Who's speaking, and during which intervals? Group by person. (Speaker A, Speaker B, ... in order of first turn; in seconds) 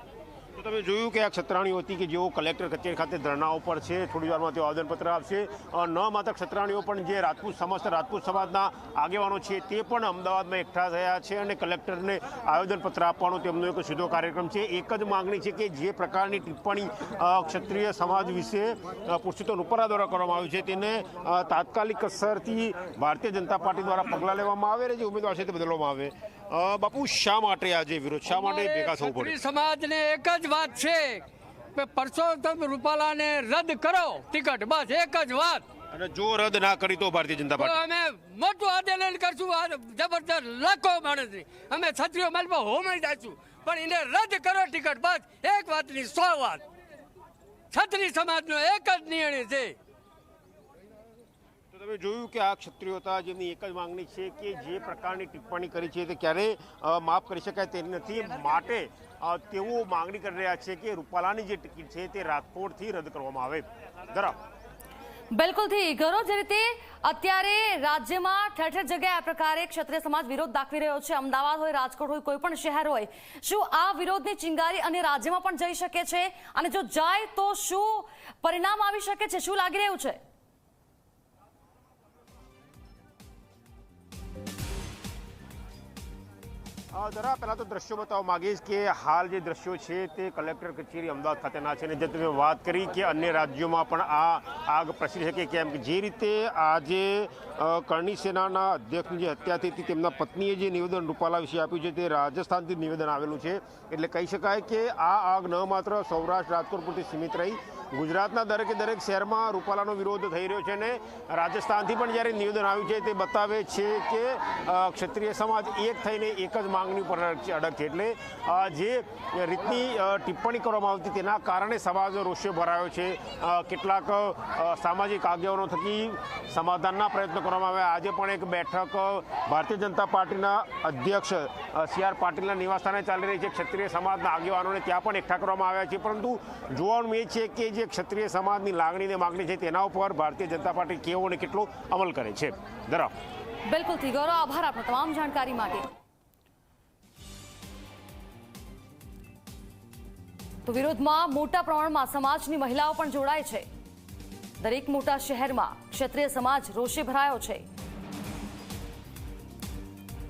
Speaker A: 0.6-29.4, 35.9-37.8, 51.7-64.3, 86.9-143.1
Speaker B: 28.2-35.6, 37.6-46.6, 47.7-49.8
Speaker C: 65.3-80.2, 143.7-145.9, 150.6-153.7, 154.6-157.6